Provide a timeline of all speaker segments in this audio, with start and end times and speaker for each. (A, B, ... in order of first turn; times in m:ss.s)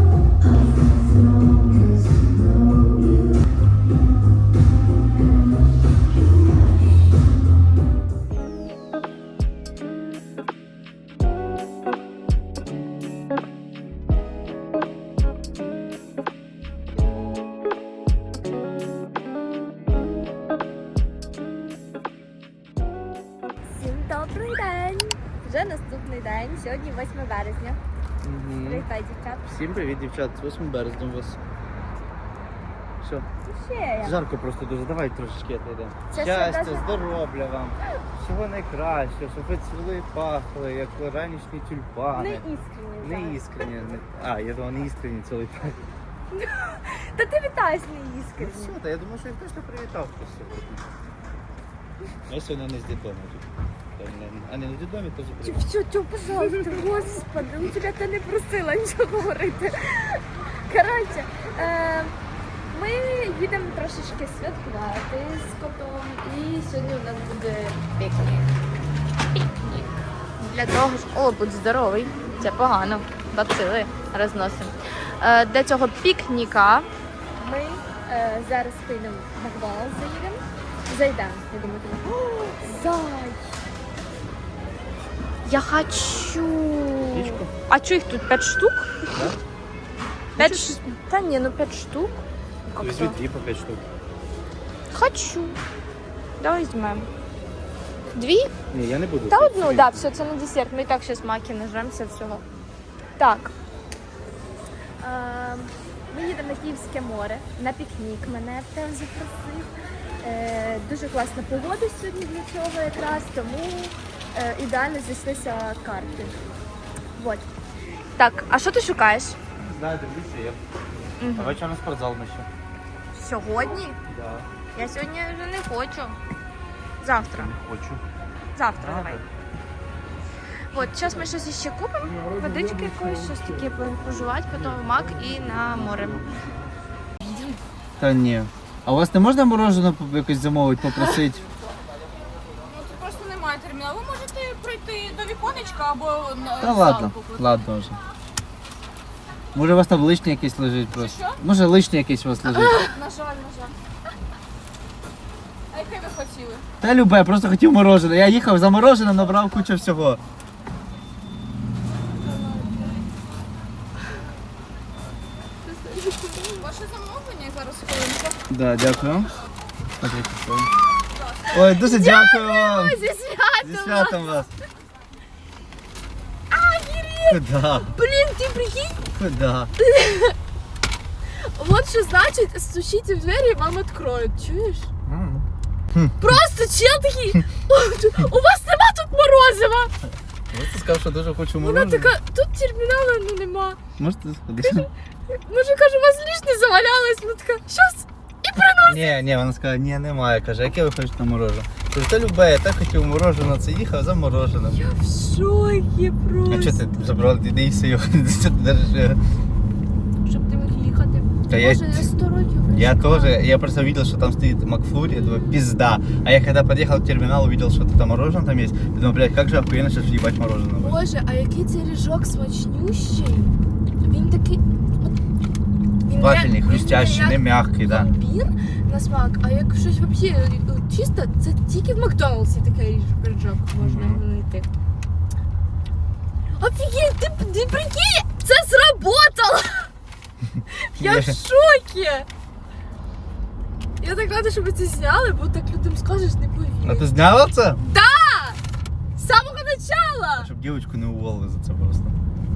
0:23.7-0:27.8 A
0:28.2-0:28.9 B
0:28.6-0:29.5 A
0:29.4-0:31.4 B
0:33.0-0:33.3 B
0:33.4-0:34.2 A
0:34.0-0:42.5 B
0:36.1-0:37.1 A
0:42.2-0:43.4 A
0:43.0-0:45.8 B
0:46.3-0:48.8 A
0:48.4-0:50.9 B
0:52.3-0:55.6 B
0:55.4-1:02.2 A
1:02.7-1:08.5 A
1:09.4-1:09.9 A
1:10.4-1:23.6 A
1:25.4-1:29.2 A
1:27.1-1:27.5 B
1:29.1-1:29.4 B
1:30.4-1:30.8 B
1:30.4-1:33.2 A
1:32.8-1:33.8 B
1:34.9-1:35.6 A
1:36.4-1:37.1 A
1:38.1-1:38.5 A
1:38.7-1:40.1 B
1:39.3-1:42.4 A
1:43.2-1:43.5 A
1:45.0-1:49.7 A
1:50.2-1:56.4 A
1:57.2-1:57.5 A
1:58.2-1:59.4 A
1:59.6-2:00.6 B
2:01.2-2:01.6 A
2:01.3-2:02.5 B
2:03.1-2:04.0 A
2:04.0-2:04.5 B
2:04.7-2:06.2 A
2:07.0-2:07.5 A
2:07.3-2:08.0 B
2:08.6-2:09.2 A
2:08.8-2:09.3 B
2:10.7-2:16.3 A
2:18.0-2:21.5 B
2:22.6-2:27.5 C
2:26.6-2:28.0 B
2:29.5-2:32.9 B
2:30.9-2:31.4 C
2:32.5-2:33.0 A
2:32.7-2:33.7 C
2:35.7-2:36.6 C
2:36.8-2:40.2 B
2:42.3-2:42.7 A
2:42.6-2:42.9 C
2:45.6-2:46.6 A
2:46.6-2:48.4 C
2:48.5-2:49.3 B
2:50.0-2:50.7 B
2:51.5-2:53.0 B
2:51.6-2:54.5 A
2:53.6-2:54.5 B
2:56.5-2:59.1 A
2:57.3-2:58.0 B
2:59.2-2:59.7 B
2:59.8-3:00.4 A
3:01.3-3:04.9 A
3:05.0-3:06.3 B
3:06.2-3:09.9 A
3:10.5-3:12.1 B
3:11.6-3:13.8 A
3:14.0-3:14.9 B
3:14.6-3:19.2 A
3:18.8-3:24.8 B
3:24.7-3:26.9 A
3:26.5-3:29.2 B
3:30.3-3:33.4 A
3:31.5-3:32.1 B
3:32.7-3:41.0 B
3:40.8-3:45.2 A
3:46.0-3:54.7 A
3:46.2-3:48.1 B
3:53.8-3:54.2 B
3:56.6-3:59.9 A
4:00.6-4:01.4 B
4:00.7-4:02.3 A
4:04.0-4:07.1 A
4:06.8-4:07.8 B
4:07.8-4:08.6 A
4:09.2-4:10.5 A
4:10.4-4:12.2 B